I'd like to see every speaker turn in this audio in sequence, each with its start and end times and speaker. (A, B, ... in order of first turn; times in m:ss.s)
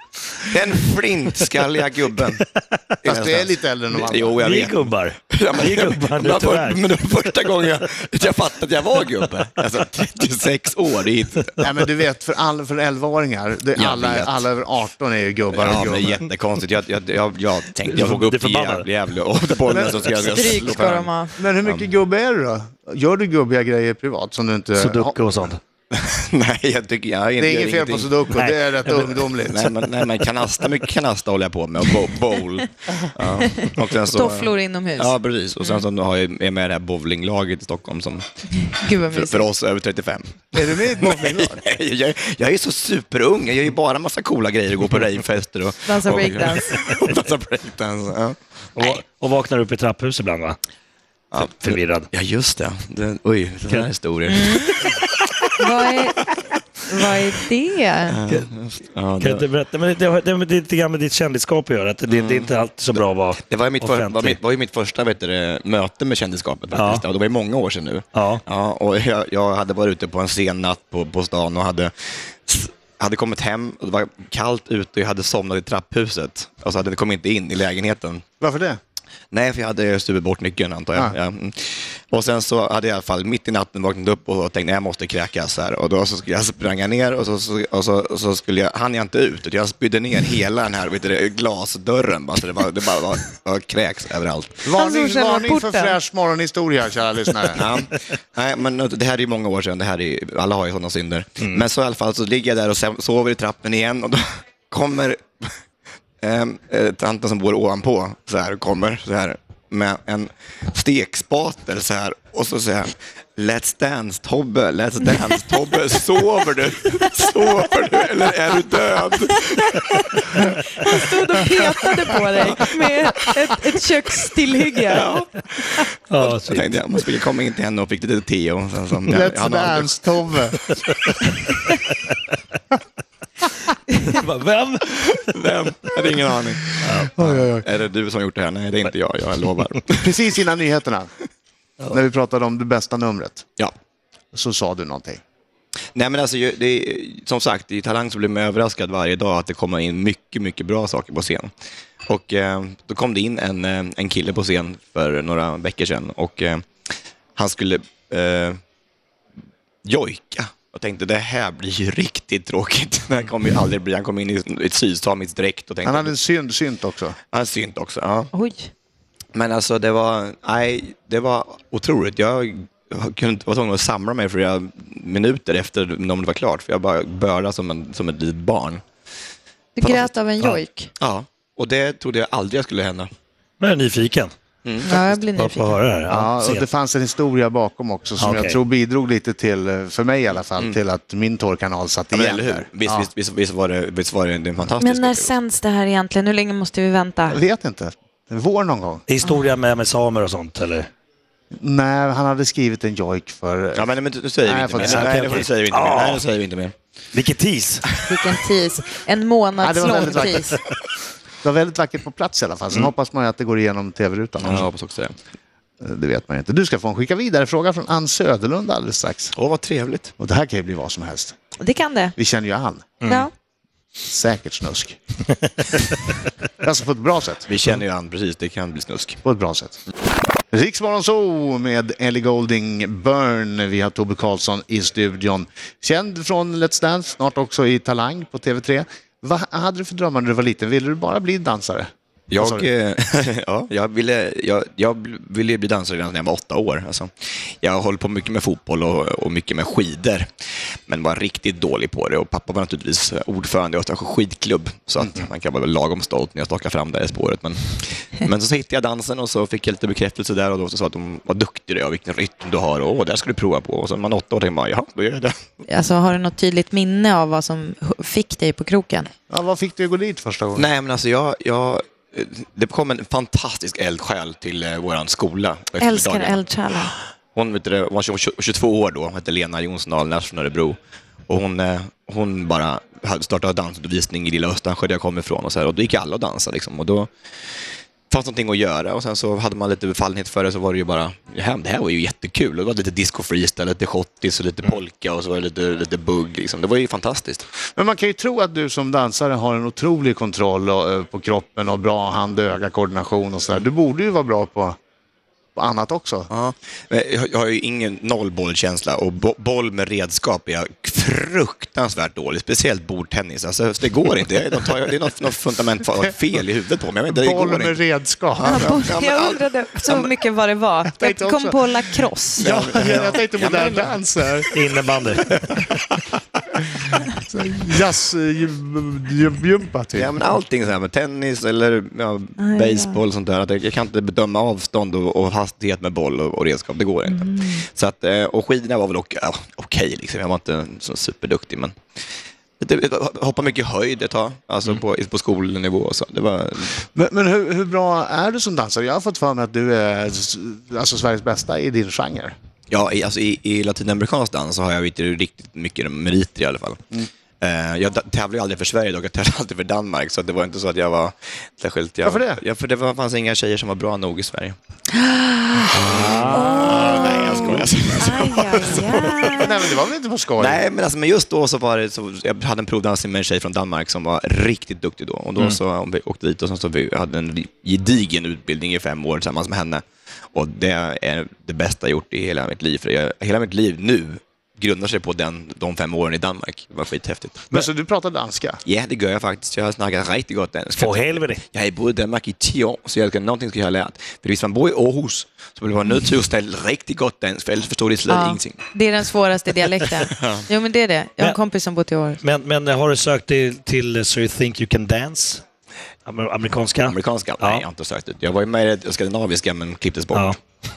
0:00.4-0:02.4 A
0:02.4-0:02.8 B
0:03.0-0:04.4 C
0:03.0-0:11.6 A
0:04.4-0:06.8 B
0:11.6-0:16.2 C
0:13.7-0:14.4 A
0:15.5-0:21.9 A
0:17.8-0:18.9 B
0:19.7-0:20.1 C
0:20.1-0:21.4 D
0:21.4-0:25.2 C
0:24.8-0:25.6 B
0:25.9-0:28.1 A
0:27.4-0:29.7 C
0:28.3-0:29.6 B
0:29.4-0:38.2 A
0:33.2-0:35.8 D
0:38.5-0:39.5 D
0:39.1-0:49.0 A
0:40.5-0:41.6 C
0:45.8-0:46.8 D
0:48.8-0:50.6 B
0:51.3-0:55.3 A
0:51.4-0:52.1 B
0:54.3-0:54.8 D
0:55.5-0:58.2 D
0:58.1-0:59.4 A
0:59.2-1:04.4 B
1:02.1-1:11.9 A
1:06.7-1:07.0 B
1:08.1-1:08.4 B
1:12.4-1:18.2 A
1:18.4-1:18.8 C
1:19.3-1:34.7 A
1:34.6-1:37.6 C
1:34.7-1:36.0 D
1:37.5-1:45.5 A
1:46.2-1:59.9 A
1:59.2-2:05.1 D
2:02.4-2:02.8 A
2:04.9-2:09.9 A
2:06.1-2:06.8 B
2:09.1-2:10.6 C
2:10.7-2:11.1 B
2:13.9-2:15.2 B
2:15.0-2:20.1 A
2:16.8-2:17.4 B
2:17.1-2:17.6 C
2:20.0-2:21.1 C
2:21.9-2:23.4 C
2:24.3-2:25.2 C
2:25.9-2:31.5 A
2:32.1-2:36.6 A
2:37.4-2:38.6 A
2:39.8-2:46.1 A
2:45.8-2:47.2 C
2:47.3-2:48.3 A
2:48.3-2:48.7 D
2:49.3-2:58.8 A
2:59.8-3:00.9 D
2:59.8-3:00.1 A
3:01.0-3:03.1 A
3:03.6-3:04.3 B
3:04.6-3:05.2 A
3:04.8-3:05.8 D
3:05.3-3:06.6 B
3:06.1-3:13.1 C
3:08.2-3:08.6 B
3:12.1-3:15.3 A
3:14.8-3:17.4 D
3:17.3-3:19.0 C
3:19.1-3:20.9 B
3:21.5-3:23.8 C
3:23.7-3:26.7 A
3:24.4-3:25.4 C
3:24.8-3:26.2 B
3:27.1-3:28.0 B
3:28.0-3:30.6 D
3:29.6-3:30.5 C
3:31.4-3:34.7 C
3:34.4-3:35.2 A
3:35.8-3:39.3 C
3:39.3-3:40.1 A
3:40.2-3:41.4 C
3:41.6-3:42.1 D
3:42.2-3:42.9 C
3:44.0-3:45.0 C
3:46.6-3:47.5 C
3:47.5-3:49.2 A
3:49.2-3:49.8 C
3:50.5-4:02.7 C
4:02.3-4:10.3 A
4:10.9-4:25.4 A
4:25.7-4:29.1 D
4:29.3-4:30.7 C
4:30.6-4:36.4 A
4:35.8-4:37.0 D
4:37.3-4:40.8 A
4:41.3-4:47.1 A
4:48.1-4:57.4 A
4:57.7-5:04.8 C
5:05.5-5:06.3 C
5:06.3-5:17.8 A
5:17.1-5:18.7 C
5:18.4-5:20.1 A
5:18.4-5:22.4 D
5:21.0-5:21.6 C
5:22.4-5:24.5 C
5:22.4-5:23.9 A
5:24.5-5:25.6 B
5:27.1-5:30.1 C
5:29.9-5:41.7 A
5:32.4-5:33.0 D
5:37.1-5:37.6 D
5:42.6-5:46.9 A
5:46.9-5:52.3 C
5:52.7-5:56.8 A
5:57.4-6:04.6 A
6:02.0-6:02.4 C
6:04.9-6:09.7 D
6:05.7-6:09.7 A
6:06.1-6:07.6 C
6:06.1-6:06.5 B
6:09.3-6:10.6 C
6:10.4-6:19.8 A
6:20.3-6:27.6 A
6:27.5-6:28.6 C
6:28.6-6:38.7 A
6:30.7-6:31.4 B
6:38.1-6:42.2 D
6:39.7-6:40.0 B
6:40.1-6:40.4 A
6:42.2-6:45.4 B
6:46.0-6:47.6 B
6:46.8-6:50.4 A
6:50.1-6:50.4 B